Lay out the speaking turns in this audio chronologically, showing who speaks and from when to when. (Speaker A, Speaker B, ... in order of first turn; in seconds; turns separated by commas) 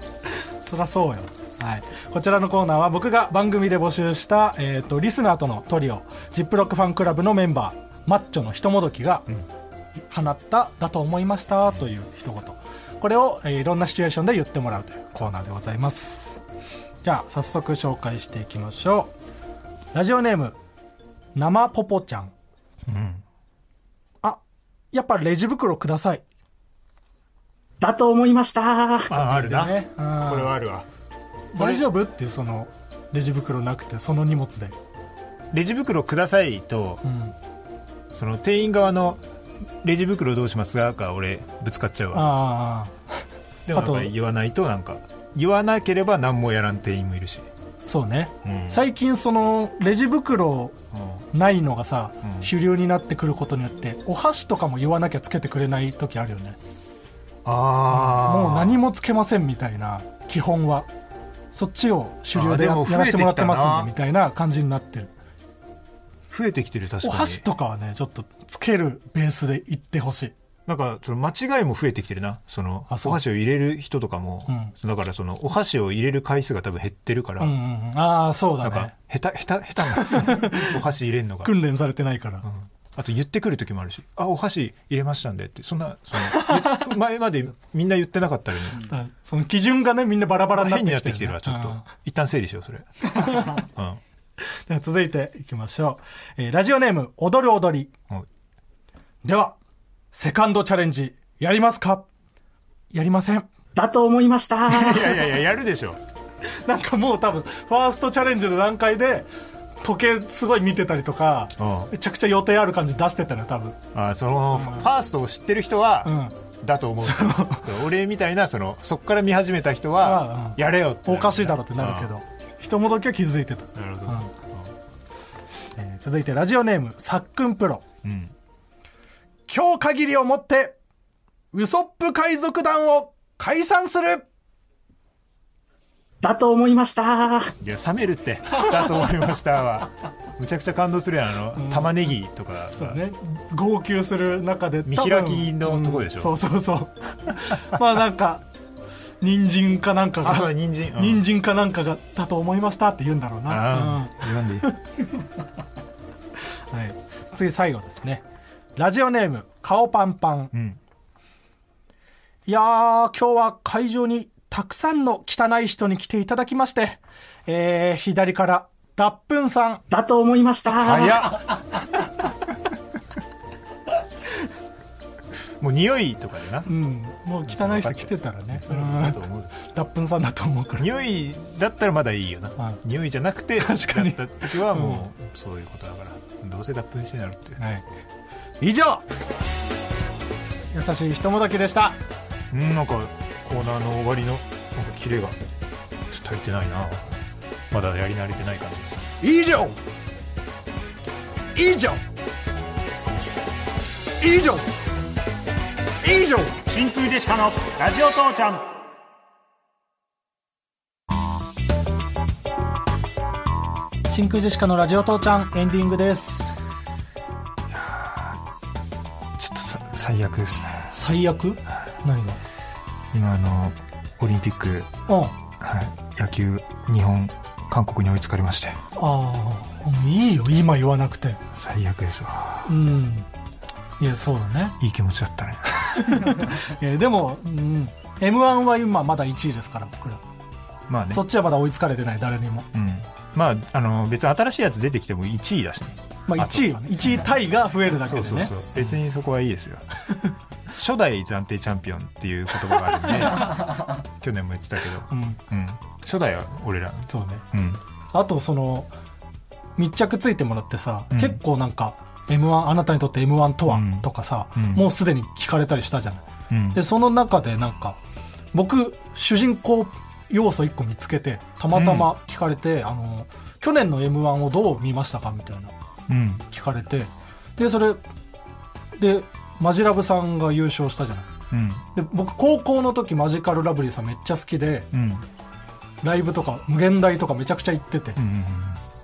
Speaker A: 0.6-9.3, Speaker A: 10.1-16.4, Speaker A: 17.0-19.1, Speaker A: 19.9-20.6, Speaker A: 21.4-22.3, Speaker B: 22.9-23.2, Speaker A: 24.9-26.2, Speaker C: 27.8-29.1, Speaker B: 29.1-30.9, Speaker A: 29.1-30.6, Speaker A: 31.5-34.8, Speaker B: 31.6-31.9, Speaker B: 35.5-37.0, Speaker A: 37.0-37.3, Speaker B: 38.1-39.2, Speaker B: 39.8-42.3, Speaker A: 42.1-43.0, Speaker B: 43.7-47.5, Speaker A: 43.7-44.1, Speaker A: 47.9-50.8, Speaker B: 48.4-48.9, Speaker B: 50.9-51.2, Speaker A: 51.3-56.6, Speaker B: 52.2-52.5, Speaker B: 57.5-58.8, Speaker A: 57.9-60.9, Speaker A: 61.5-65.1, Speaker B: 62.3-63.9, Speaker B: 66.3-67.5, Speaker A: 67.0-70.3, Speaker B: 70.7-77.6, Speaker A: 72.9-73.2, Speaker A: 74.5-74.7, Speaker A: 77.4-78.9, Speaker B: 78.6-81.5, Speaker A: 79.9-80.8, Speaker A: 81.4-82.5, Speaker B: 82.4-88.9, Speaker A: 86.2-86.9, Speaker A: 88.8-91.9, Speaker B: 90.5-94.0, Speaker A: 93.1-93.6, Speaker A: 94.7-97.9, Speaker A: 99.2-99.6, Speaker A: 100.1-102.1, Speaker A: 102.9-103.5, Speaker C: 103.8-105.1, Speaker B: 104.7-106.0, Speaker A: 106.6-109.3, Speaker A: 109.8-113.8, Speaker B: 111.6-111.9, Speaker B: 113.9-122.1, Speaker A: 114.5-114.9, Speaker A: 116.0-116.3, Speaker A: 117.0-117.7, Speaker A: 120.0-124.3, Speaker B: 123.8-124.7, Speaker A: 125.8-127.8, Speaker B: 128.0-128.3, Speaker A: 129.5-130.8, Speaker A: 131.5-134.3, Speaker C: 136.2-137.5, Speaker B: 137.6-143.0, Speaker A: 141.6-142.1, Speaker A: 142.7-148.4, Speaker B: 144.9-146.3, Speaker A: 149.2-154.8, Speaker B: 150.2-151.3, Speaker B: 153.5-154.7, Speaker A: 156.7-158.2, Speaker A: 158.8-160.5, Speaker B: 160.5-160.8, Speaker A: 162.5-169.8, Speaker C: 169.9-171.3, Speaker B: 170.8-171.9, Speaker B: 175.6-176.7, Speaker A: 176.7-180.9, Speaker B: 177.5-179.5, Speaker B: 180.8-187.6, Speaker A: 183.6-185.1, Speaker A: 187.6-187.9, Speaker A: 188.6-189.0, Speaker A: 190.7-192.0, Speaker B: 192.5-195.4, Speaker B: 196.1-197.2, Speaker B: 197.7-199.2, Speaker A: 199.2-199.8, Speaker A: 201.6-202.0, Speaker A: 204.2-204.7, Speaker A: 206.0-206.6, Speaker B: 206.6-208.7, Speaker A: 214.1-216.6, Speaker B: 217.7-218.4, Speaker B: 219.4-220.9, Speaker A: 220.9-222.4, Speaker B: 223.1-224.9, Speaker A: 225.1-225.3, Speaker B: 225.6-228.8, Speaker A: 229.0-231.4, Speaker B: 231.5-232.8, Speaker A: 232.7-233.3, Speaker A: 234.0-234.8, Speaker B: 234.8-236.6, Speaker A: 235.9-240.2, Speaker B: 240.9-241.3, Speaker A: 241.1-242.7, Speaker B: 242.7-247.3, Speaker A: 246.3-248.5, Speaker B: 247.9-249.8, Speaker B: 250.7-257.8, Speaker A: 255.1-255.4, Speaker A: 257.1-257.4, Speaker A: 258.1-258.9, Speaker A: 259.8-268.0, Speaker B: 261.1-261.4, Speaker B: 263.7-264.9, Speaker B: 266.5-266.8, Speaker A: 268.5-275.7, Speaker B: 271.7-272.1, Speaker B: 276.1-276.4, Speaker A: 276.5-278.0, Speaker A: 279.0-281.3, Speaker B: 281.5-281.9, Speaker A: 281.9-284.9, Speaker B: 284.9-285.3, Speaker A: 286.0-288.2, Speaker B: 288.2-288.8